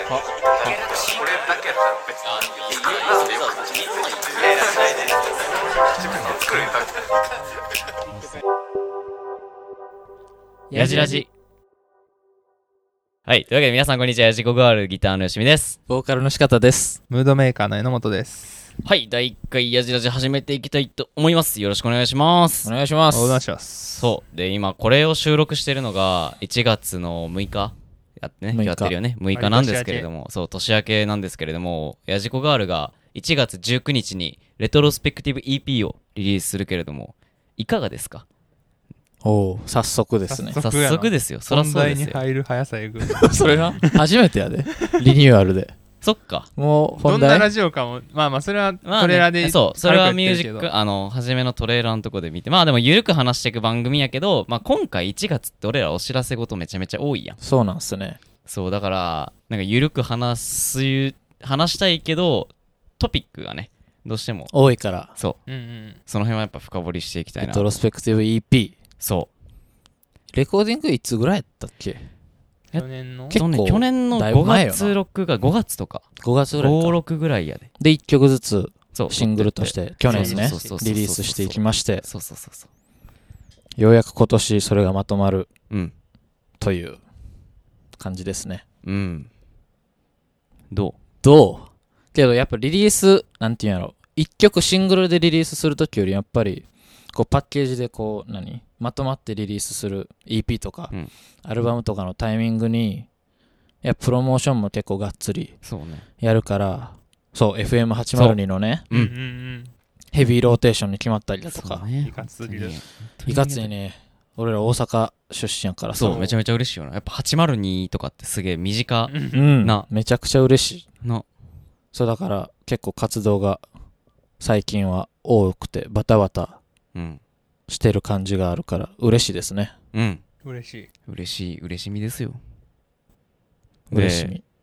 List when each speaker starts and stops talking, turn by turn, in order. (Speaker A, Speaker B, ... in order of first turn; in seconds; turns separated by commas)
Speaker A: 6.1-6.7, Speaker A: 8.1-8.4, Speaker B: 10.7-11.2, Speaker A: 10.7-11.3, Speaker A: 13.3-15.8, Speaker B: 15.9-17.0, Speaker C: 17.1-18.7, Speaker A: 18.8-22.7, Speaker B: 22.6-23.4, Speaker C: 23.1-24.1, Speaker A: 24.0-38.2, Speaker B: 28.5-28.9, Speaker C: 29.3-30.1, Speaker B: 39.2-40.6, Speaker C: 40.3-44.0, Speaker A: 40.6-42.2, Speaker B: 43.0-45.7, Speaker A: 46.0-46.5, Speaker B: 46.6-47.5, Speaker C: 47.0-50.7, Speaker A: 48.8-57.4, Speaker B: 57.4-58.2, Speaker A: 58.5-64.5, Speaker B: 64.5-65.2, Speaker C: 65.5-66.0, Speaker A: 66.1-67.7, Speaker B: 67.4-68.8, Speaker A: 69.0-69.3, Speaker B: 70.3-72.0, Speaker A: 72.7-76.0, Speaker C: 72.7-73.4, Speaker B: 73.3-75.0, Speaker B: 76.2-77.0, Speaker A: 76.6-77.7, Speaker B: 77.8-82.0, Speaker A: 78.9-82.7, Speaker C: 80.1-80.8, Speaker B: 83.8-85.5, Speaker B: 86.6-87.0, Speaker B: 88.0-88.6, Speaker A: 88.8-89.3, Speaker A: 90.7-91.0, Speaker B: 91.2-100.9, Speaker B: 101.5-103.1, Speaker B: 103.8-105.6, Speaker A: 105.6-106.1, Speaker B: 106.2-108.9, Speaker A: 108.1-108.4, Speaker C: 108.9-109.7, Speaker B: 110.1-111.8, Speaker A: 111.5-113.7, Speaker C: 112.0-112.8, Speaker B: 113.3-116.3, Speaker A: 116.0-119.9, Speaker C: 116.0-116.3, Speaker C: 119.1-119.5, Speaker B: 119.3-120.9, Speaker B: 121.9-123.6, Speaker B: 124.4-126.6, Speaker A: 126.9-127.2, Speaker B: 127.7-129.7, Speaker A: 129.9-130.2, Speaker C: 130.4-130.9, Speaker A: 131.1-132.4, Speaker B: 133.9-134.4, Speaker A: 133.9-134.4